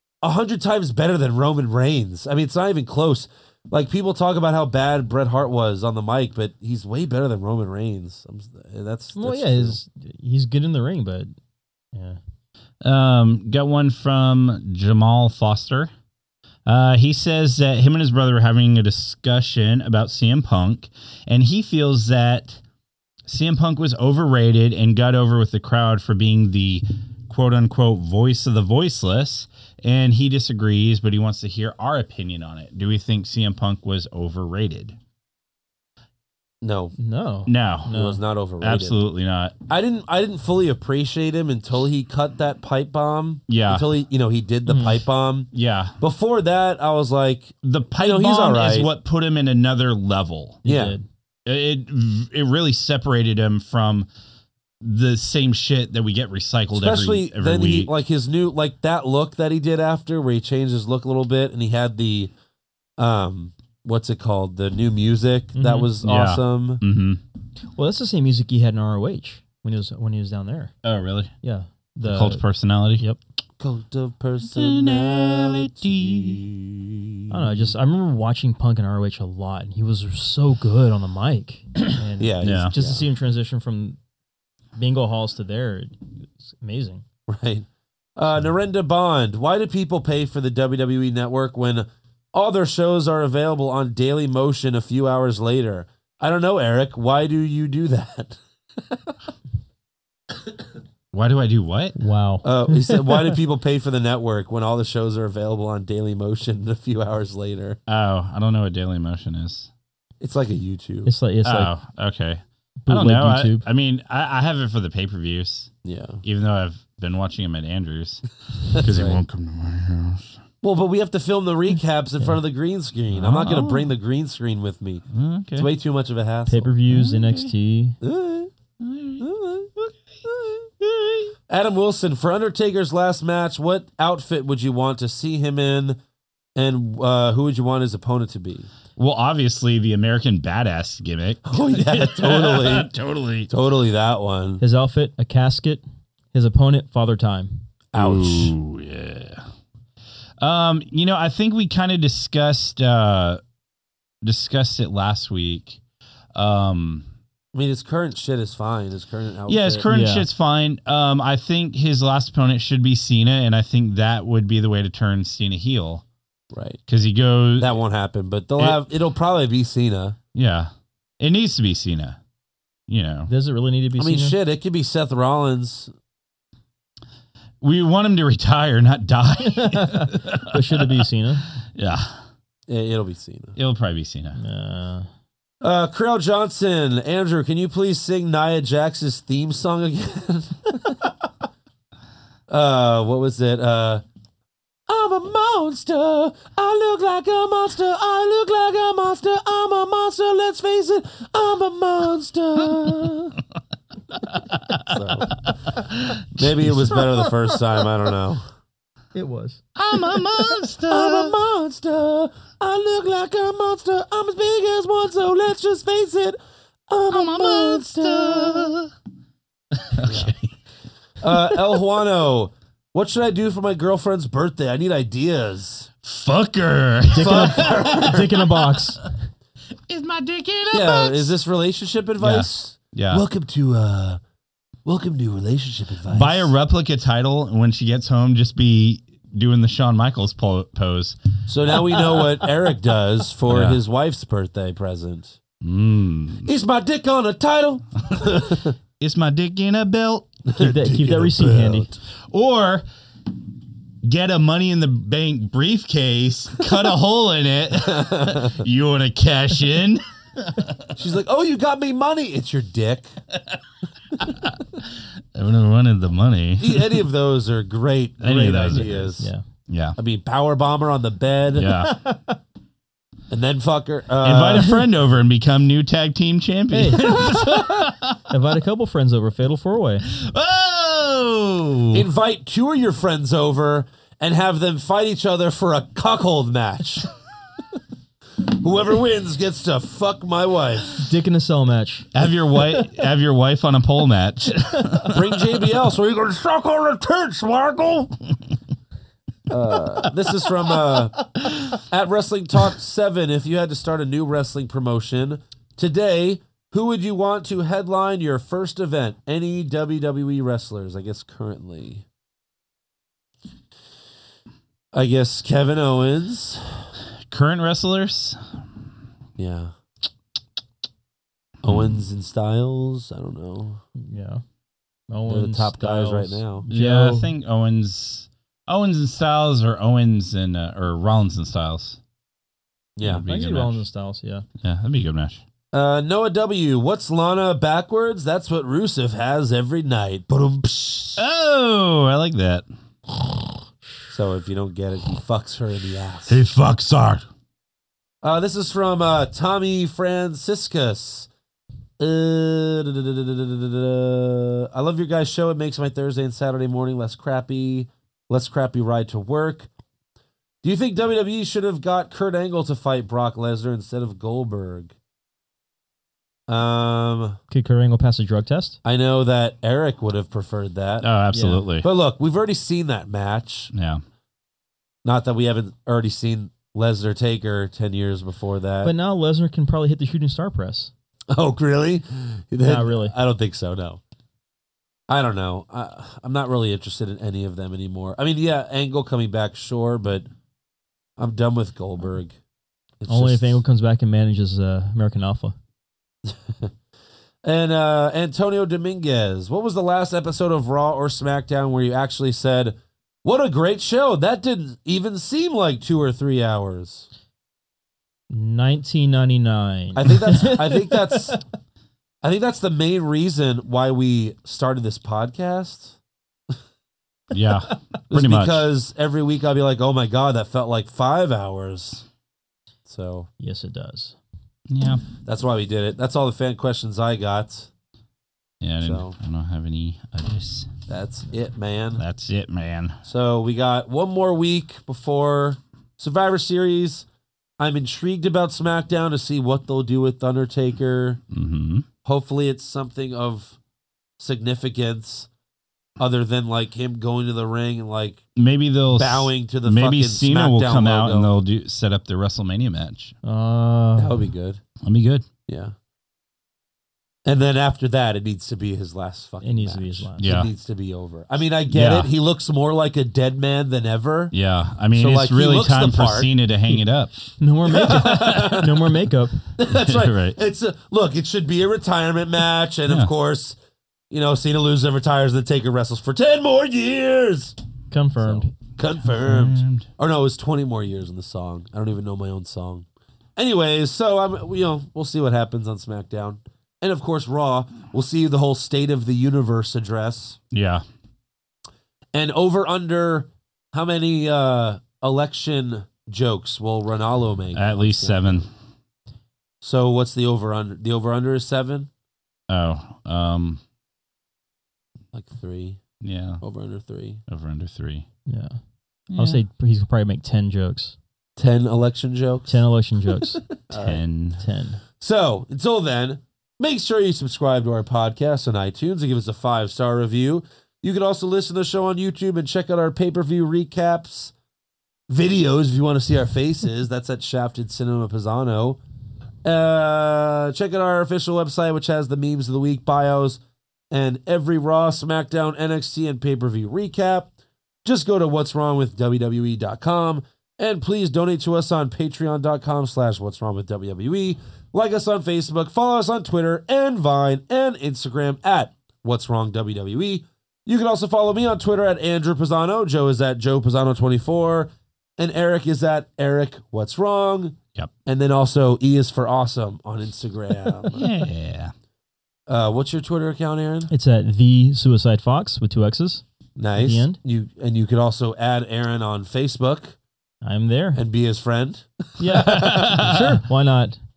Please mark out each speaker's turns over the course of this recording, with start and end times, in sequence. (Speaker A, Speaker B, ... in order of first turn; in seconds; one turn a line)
Speaker A: 0.2-9.8
Speaker B: 9.2-11.3
Speaker B: 11.9-12.2
Speaker C: 12.8-15.9
Speaker C: 16.7-22.6
Speaker C: 23.3-35.0
Speaker A: 36.6-37.0
Speaker B: 37.0-38.2
Speaker C: 37.5-37.9
Speaker A: 37.9-39.0
Speaker C: 38.6-39.5
Speaker A: 39.7-48.9
Speaker C: 43.5-43.9
Speaker B: 44.7-45.0
Speaker C: 45.5-46.0
Speaker C: 47.6-50.6
Speaker A: 50.6-51.0
Speaker B: 50.6-51.0
Speaker C: 51.5-54.1
Speaker C: 54.8-57.9
Speaker A: 56.7-62.3
Speaker A: 63.0-66.8
Speaker B: 65.6-65.9
Speaker C: 66.0-67.2
Speaker B: 67.8-70.7
Speaker C: 70.8-71.3
Speaker B: 71.4-72.4
Speaker C: 72.0-73.0
Speaker A: 73.6-77.1
Speaker C: 74.4-76.4
Speaker B: 77.3-84.0
Speaker A: 82.2-83.1
Speaker C: 82.4-82.7
Speaker B: 84.8-87.0
Speaker A: 87.3-98.4
Speaker C: 101.1-102.0
Speaker B: 102.0-103.3
Speaker A: 102.4-107.8
Speaker C: 107.9-109.7
Speaker A: 110.2-111.1
Speaker B: 111.1-111.7
Speaker C: 111.4-115.7
Speaker B: 112.8-113.7
Speaker A: 115.8-116.2
Speaker C: 116.2-120.4
Speaker A: 118.7-119.2
Speaker A: 120.6-125.0
Speaker C: 123.1-124.0
Speaker C: 125.1-125.7
Speaker A: 125.6-126.8
Speaker B: 126.5-128.0
Speaker C: 126.9-127.5
Speaker A: 128.0-128.5
Speaker C: 128.8-129.3
Speaker A: 129.2-130.6
Speaker C: 130.8-131.3
Speaker A: 131.5-136.0
Speaker A: 136.6-138.7
Speaker C: 139.0-143.5
Speaker A: 141.5-142.9
Speaker A: 143.5-144.6
Speaker B: 144.6-147.6
Speaker A: 147.9-148.5
Speaker C: 147.9-149.5
Speaker C: 150.4-153.4
Speaker C: 154.2-155.8
Speaker C: 156.3-157.1
Speaker A: 157.5-159.8
Speaker C: 159.5-166.0
Speaker B: 159.9-160.3
Speaker A: 166.5-166.8
Speaker C: 166.9-167.7
Speaker A: 167.6-170.2
Speaker C: 170.3-172.2
Speaker C: 172.9-173.3
Speaker B: 173.3-174.4
Speaker A: 174.0-175.9
Speaker C: 177.6-181.1
Speaker B: 179.4-181.4
Speaker C: 181.8-182.2
Speaker A: 182.7-183.6
Speaker C: 183.6-184.4
Speaker B: 184.4-185.1
Speaker A: 185.6-191.1
Speaker A: 192.5-194.0
Speaker A: 194.9-203.4
Speaker C: 204.2-204.8
Speaker A: 204.9-205.4
Speaker C: 205.4-206.6
Speaker A: 206.3-208.4
Speaker B: 209.2-209.6
Speaker C: 209.8-211.4
Speaker A: 210.9-216.4
Speaker A: 216.9-218.7
Speaker C: 217.1-218.9
Speaker C: 219.8-220.6
Speaker A: 220.0-220.3
Speaker A: 221.2-225.9
Speaker C: 226.0-228.8
Speaker A: 227.1-228.4
Speaker B: 227.1-229.1
Speaker C: 229.9-231.3
Speaker A: 230.7-234.2
Speaker C: 232.2-233.2
Speaker A: 234.8-236.5
Speaker C: 236.1-241.2
Speaker A: 241.5-245.4
Speaker C: 243.5-243.8
Speaker C: 245.6-246.5
Speaker A: 246.4-248.8
Speaker C: 249.0-250.3
Speaker A: 250.5-252.0
Speaker B: 250.5-251.9
Speaker C: 252.3-252.8
Speaker C: 254.0-260.9
Speaker A: 257.8-258.6
Speaker A: 260.9-263.1
Speaker C: 264.2-267.1
Speaker A: 266.6-269.3
Speaker C: 268.2-269.2
Speaker B: 268.8-269.4
Speaker C: 269.7-270.0
Speaker A: 270.0-271.8
Speaker C: 271.5-272.0
Speaker B: 271.8-272.4
Speaker A: 273.3-274.9
Speaker C: 274.2-278.2
Speaker B: 276.7-277.4
Speaker B: 278.3-280.1
Speaker C: 280.0-282.1
Speaker A: 281.9-287.1
Speaker A: 288.4-291.1
Speaker B: 291.0-292.1
Speaker C: 292.1-295.6
Speaker A: 295.1-298.1
Speaker A: 299.5-312.1
Speaker A: 314.9-316.9
Speaker C: 317.3-318.5
Speaker A: 319.4-319.7
Speaker A: 321.6-323.8
Speaker C: 321.7-322.0
Speaker B: 324.0-324.4
Speaker B: 325.1-327.3
Speaker A: 325.3-326.7
Speaker C: 326.7-332.0
Speaker A: 333.0-333.2
Speaker C: 333.0-333.8
Speaker B: 333.3-334.4
Speaker C: 334.6-335.4
Speaker A: 335.7-341.2
Speaker C: 341.2-342.7
Speaker A: 344.1-346.4
Speaker C: 346.3-347.3
Speaker A: 348.2-351.3
Speaker A: 352.0-359.7
Speaker A: 360.6-364.9
Speaker A: 366.5-367.4
Speaker B: 367.5-368.8
Speaker A: 368.8-371.2
Speaker C: 371.0-371.9
Speaker B: 371.3-371.6
Speaker A: 371.8-373.7
Speaker C: 373.7-374.0
Speaker A: 375.0-378.9
Speaker B: 378.8-380.9
Speaker A: 381.3-384.0
Speaker B: 382.6-383.1
Speaker A: 385.1-390.3
Speaker A: 391.2-392.4
Speaker A: 393.0-393.6
Speaker B: 393.1-395.6
Speaker A: 396.3-396.7
Speaker A: 397.4-407.1
Speaker B: 408.3-411.4
Speaker A: 410.0-411.4
Speaker A: 412.2-416.0
Speaker C: 417.3-418.7
Speaker A: 418.1-422.1
Speaker A: 422.9-423.3
Speaker B: 423.4-424.2
Speaker C: 424.7-425.0
Speaker A: 425.2-427.7
Speaker C: 428.6-430.7
Speaker A: 428.8-429.1
Speaker A: 430.9-432.0
Speaker C: 432.0-433.0
Speaker A: 433.1-437.1
Speaker A: 437.6-441.2
Speaker C: 441.3-441.9
Speaker A: 442.1-443.6
Speaker A: 444.2-445.3
Speaker A: 446.0-448.3
Speaker C: 448.4-453.1
Speaker A: 448.9-451.3
Speaker B: 453.2-454.2
Speaker A: 454.0-454.6
Speaker C: 454.8-455.3
Speaker A: 455.5-455.7
Speaker A: 457.3-464.3
Speaker B: 459.4-460.3
Speaker C: 460.2-460.5
Speaker C: 461.7-462.1
Speaker C: 464.3-467.1
Speaker A: 464.9-466.3
Speaker B: 467.4-469.4
Speaker A: 467.8-468.7
Speaker C: 468.1-468.6
Speaker A: 469.6-473.6
Speaker C: 469.7-470.4
Speaker C: 472.9-473.1
Speaker A: 474.1-477.6
Speaker B: 477.9-478.5
Speaker A: 478.2-490.4
Speaker C: 479.1-479.9
Speaker C: 490.5-490.8
Speaker A: 492.1-498.5
Speaker C: 497.5-498.5
Speaker A: 499.6-501.9
Speaker C: 502.5-503.6
Speaker A: 505.1-505.8
Speaker C: 506.0-506.4
Speaker A: 506.4-507.2
Speaker C: 507.3-508.1
Speaker B: 508.3-508.6
Speaker C: 509.1-509.4
Speaker B: 509.1-511.0
Speaker A: 511.4-512.6
Speaker B: 512.5-513.4
Speaker A: 513.3-514.0
Speaker C: 513.7-514.4
Speaker B: 514.4-514.8
Speaker A: 515.0-524.3
Speaker A: 525.1-528.8
Speaker A: 529.5-533.4
Speaker A: 533.9-537.3
Speaker A: 537.9-561.1
Speaker C: 560.9-561.7
Speaker A: 562.5-563.9
Speaker B: 563.9-566.2
Speaker A: 566.6-570.0
Speaker B: 566.8-567.2
Speaker B: 570.4-571.0
Speaker A: 571.0-573.0
Speaker B: 572.2-574.0
Speaker C: 572.6-573.4